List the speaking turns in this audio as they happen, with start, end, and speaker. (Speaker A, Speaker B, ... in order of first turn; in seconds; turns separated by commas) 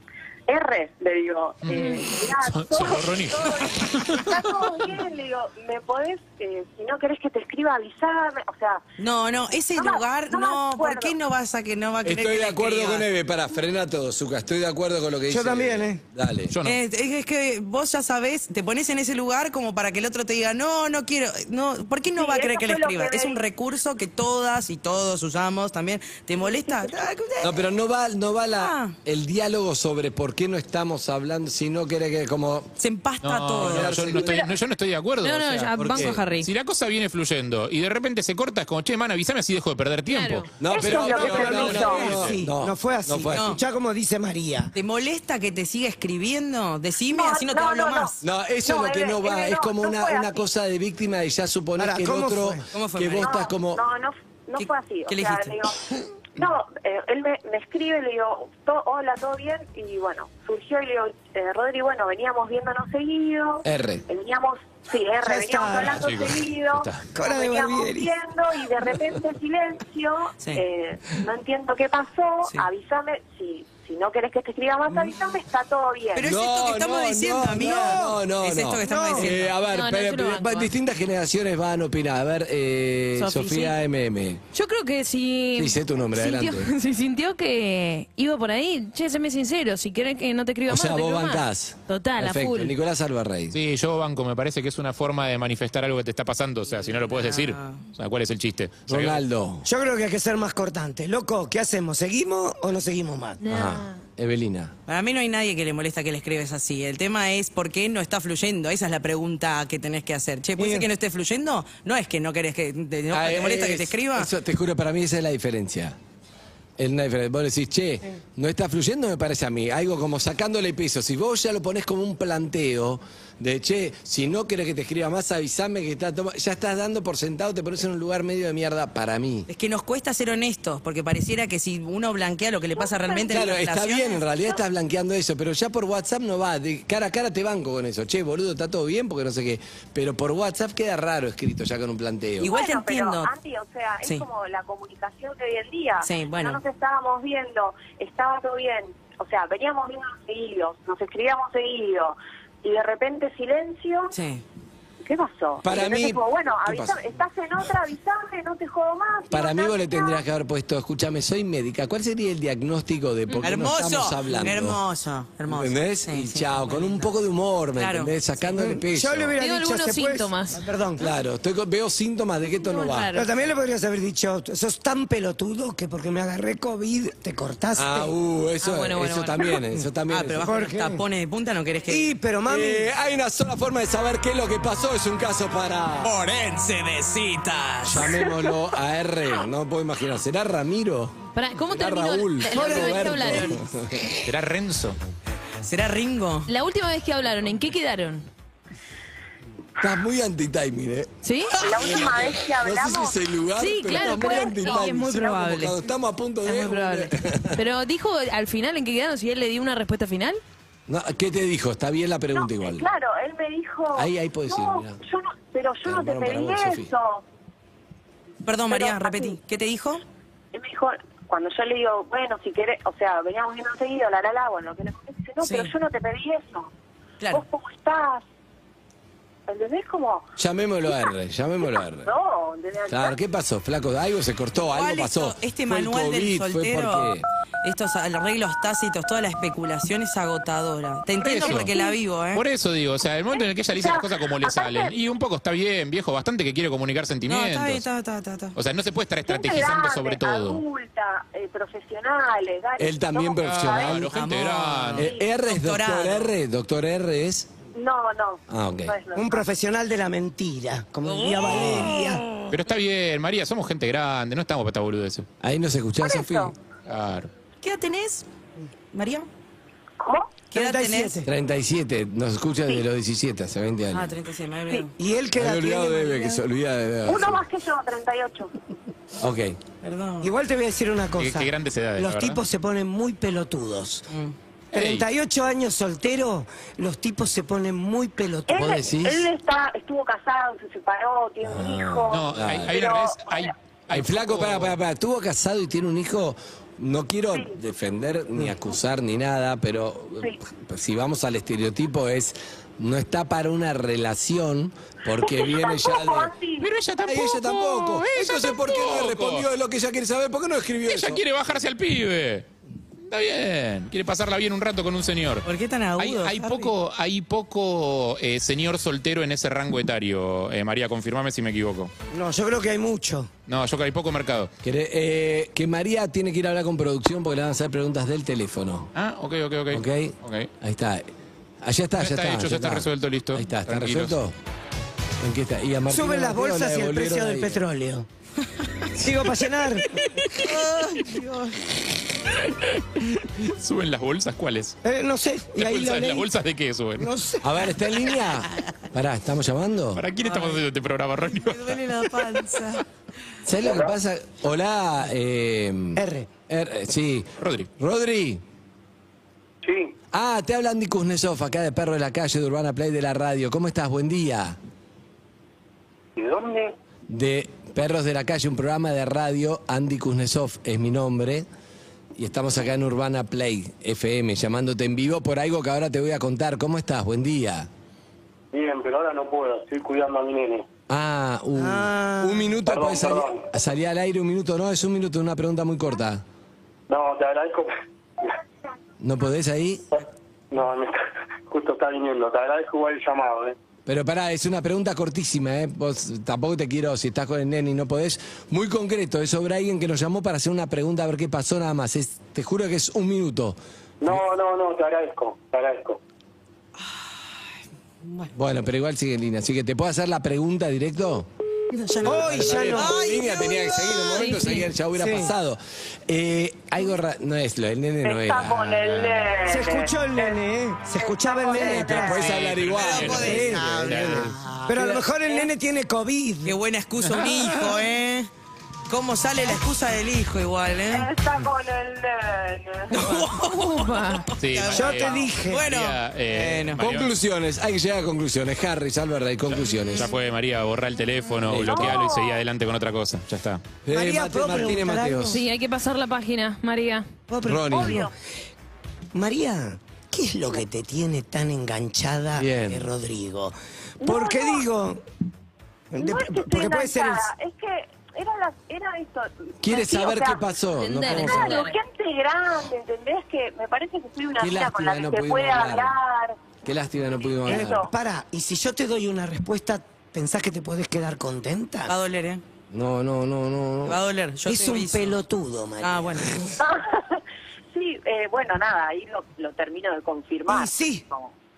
Speaker A: 0.5-8.8, Speaker B: 1.6-4.5, Speaker C: 9.0-13.1, Speaker A: 9.7-11.1, Speaker D: 12.0-16.5, Speaker E: 15.3-16.0, Speaker B: 16.5-16.8, Speaker C: 16.6-27.6, Speaker A: 22.1-23.4, Speaker D: 27.4-32.7, Speaker C: 28.6-28.9, Speaker C: 32.8-34.3, Speaker B: 33.2-40.5, Speaker D: 33.6-34.5, Speaker F: 35.2-36.5, Speaker D: 35.8-36.2, Speaker F: 40.1-40.5, Speaker D: 40.6-43.6, Speaker A: 40.6-42.0, Speaker E: 40.7-44.7, Speaker B: 41.1-42.4, Speaker C: 43.3-43.6, Speaker C: 44.7-48.2, Speaker A: 47.1-50.5, Speaker D: 48.2-53.8, Speaker E: 51.8-52.6, Speaker C: 52.7-53.4, Speaker A: 53.1-55.8, Speaker C: 54.6-55.7, Speaker A: 56.4-76.3, Speaker D: 63.6-64.0, Speaker E: 65.2-66.2, Speaker B: 66.0-67.0, Speaker E: 67.1-68.1, Speaker C: 70.4-70.6, Speaker C: 76.1-79.5, Speaker D: 76.2-84.4, Speaker E: 77.5-78.2, Speaker E: 78.8-79.3, Speaker F: 79.6-80.7, Speaker F: 83.2-83.8, Speaker F: 84.5-92.7, Speaker D: 85.5-86.7, Speaker D: 90.7-93.6, Speaker B: 93.5-99.2, Speaker C: 96.8-97.8, Speaker D: 98.9-99.7, Speaker E: 99.6-103.4, Speaker F: 103.4-104.0, Speaker D: 103.5-104.7, Speaker C: 104.9-114.3, Speaker E: 110.6-110.9, Speaker D: 113.1-116.0, Speaker D: 116.8-129.5, Speaker C: 129.5-134.2, Speaker A: 132.7-133.5, Speaker D: 133.2-142.5, Speaker C: 142.4-143.3, Speaker A: 142.4-154.2, Speaker C: 146.0-146.6, Speaker C: 154.1-154.4, Speaker A: 155.0-160.2, Speaker D: 155.6-157.0, Speaker D: 159.3-164.8, Speaker C: 163.4-167.1, Speaker D: 165.5-169.4, Speaker C: 167.8-168.2, Speaker E: 168.6-171.1, Speaker F: 169.4-170.6, Speaker D: 171.0-173.1, Speaker F: 172.6-173.3, Speaker E: 173.1-178.1, Speaker D: 177.7-180.5, Speaker F: 178.6-179.6, Speaker C: 180.1-182.1, Speaker E: 180.4-181.0, Speaker E: 181.9-182.9, Speaker D: 182.5-186.1, Speaker C: 186.0-188.4, Speaker D: 187.8-194.1, Speaker F: 191.3-193.6, Speaker E: 192.6-193.4, Speaker B: 194.2-195.0, Speaker C: 195.6-196.5, Speaker F: 196.4-198.2, Speaker D: 199.8-207.6, Speaker F: 201.2-201.6, Speaker A: 201.6-203.2, Speaker F: 203.6-205.8, Speaker A: 203.9-204.9, Speaker F: 206.4-210.4, Speaker D: 210.9-212.9, Speaker A: 212.3-217.2, Speaker D: 213.9-215.0, Speaker D: 215.8-216.9, Speaker C: 218.4-220.0, Speaker A: 218.7-219.4, Speaker A: 220.5-226.7, Speaker C: 225.4-225.7, Speaker A: 227.3-228.2, Speaker A: 229.5-230.3, Speaker D: 230.4-232.1, Speaker A: 232.0-233.2, Speaker D: 232.9-237.2, Speaker C: 234.7-242.4, Speaker B: 241.2-241.7, Speaker B: 242.3-247.9, Speaker A: 243.3-244.9, Speaker C: 247.2-248.6, Speaker B: 248.5-250.6, Speaker A: 249.2-254.0, Speaker D: 252.8-257.5, Speaker B: 253.4-255.1, Speaker C: 254.1-256.3, Speaker A: 257.7-259.5, Speaker D: 258.5-258.9, Speaker E: 259.1-262.2, Speaker C: 261.1-262.4, Speaker D: 261.4-262.0, Speaker B: 262.5-265.3, Speaker D: 265.4-266.5, Speaker A: 266.0-266.5, Speaker B: 266.9-267.3, Speaker C: 267.6-268.2, Speaker C: 268.9-269.3, Speaker A: 270.0-270.4, Speaker C: 270.5-271.2, Speaker E: 270.5-271.3, Speaker D: 271.2-274.1, Speaker C: 273.9-274.9, Speaker E: 275.0-276.4, Speaker D: 275.4-277.4, Speaker A: 277.0-278.5, Speaker D: 279.2-279.6, Speaker C: 279.8-280.3, Speaker E: 280.2-284.1, Speaker B: 281.2-282.4, Speaker C: 284.1-284.3, Speaker B: 284.7-285.1, Speaker E: 284.7-288.8, Speaker A: 288.5-293.5, Speaker D: 288.5-289.3, Speaker D: 291.4-292.8, Speaker B: 292.1-294.8, Speaker D: 293.9-306.3, Speaker A: 297.3-297.5, Speaker A: 305.2-306.7, Speaker B: 306.6-309.4, Speaker D: 307.0-311.2, Speaker B: 310.9-312.5, Speaker B: 313.1-321.9, Speaker C: 315.4-316.7, Speaker E: 322.1-323.3, Speaker B: 323.5-324.5, Speaker D: 324.6-328.9, Speaker B: 328.9-330.5, Speaker D: 329.7-331.1, Speaker D: 331.6-334.3, Speaker B: 332.0-334.2, Speaker D: 335.2-337.6, Speaker E: 335.9-338.1, Speaker E: 338.9-340.0, Speaker C: 340.3-341.7, Speaker B: 342.4-344.8, Speaker E: 344.8-346.3, Speaker B: 345.6-347.1, Speaker E: 347.0-347.4, Speaker D: 347.4-350.0, Speaker B: 349.9-352.3, Speaker C: 350.2-350.6, Speaker C: 351.3-352.8, Speaker D: 353.4-358.4, Speaker E: 355.9-356.3, Speaker B: 357.4-357.7, Speaker G: 359.6-359.9, Speaker D: 360.1-364.6, Speaker G: 366.2-366.7, Speaker D: 367.1-371.5, Speaker D: 372.1-377.7, Speaker G: 378.5-380.6, Speaker D: 380.9-386.2, Speaker E: 381.6-382.6, Speaker G: 382.7-383.4, Speaker G: 386.9-387.7, Speaker D: 389.0-389.9, Speaker G: 390.5-390.9, Speaker G: 391.5-393.5, Speaker D: 393.9-403.6, Speaker G: 404.0-406.0, Speaker C: 406.8-407.2, Speaker C: 408.0-408.3, Speaker D: 408.3-411.3, Speaker C: 411.7-414.6, Speaker E: 412.0-413.3, Speaker D: 412.0-419.2, Speaker B: 412.4-412.7, Speaker E: 414.9-415.3, Speaker A: 418.0-420.4, Speaker E: 419.4-422.3, Speaker A: 420.9-422.1, Speaker D: 421.6-425.0, Speaker B: 422.1-424.3, Speaker C: 422.6-424.6, Speaker E: 423.1-424.1, Speaker E: 424.7-426.6, Speaker C: 426.4-428.3, Speaker B: 427.2-427.7, Speaker C: 428.9-431.1, Speaker A: 430.9-433.0, Speaker C: 432.9-436.8, Speaker F: 432.9-434.3, Speaker B: 434.4-437.1, Speaker E: 434.7-435.6, Speaker D: 436.8-440.1, Speaker B: 439.9-443.6, Speaker D: 441.5-442.0, Speaker A: 441.6-442.4, Speaker D: 443.8-445.4, Speaker E: 443.9-445.4, Speaker F: 445.3-447.1, Speaker E: 447.3-448.1, Speaker D: 447.4-448.1, Speaker A: 447.7-448.1, Speaker E: 449.1-455.0, Speaker D: 452.3-452.9, Speaker A: 454.0-454.6, Speaker E: 455.9-457.3, Speaker A: 456.0-460.4, Speaker D: 459.6-461.6, Speaker F: 460.8-461.8, Speaker A: 461.0-466.4, Speaker D: 464.4-465.9, Speaker D: 466.6-467.9, Speaker A: 467.4-467.9, Speaker E: 467.5-471.9, Speaker C: 471.9-472.4, Speaker D: 472.7-474.0, Speaker C: 473.8-475.2, Speaker E: 474.4-476.5, Speaker C: 475.8-476.4, Speaker A: 476.6-477.2, Speaker A: 477.7-481.3, Speaker E: 480.5-481.0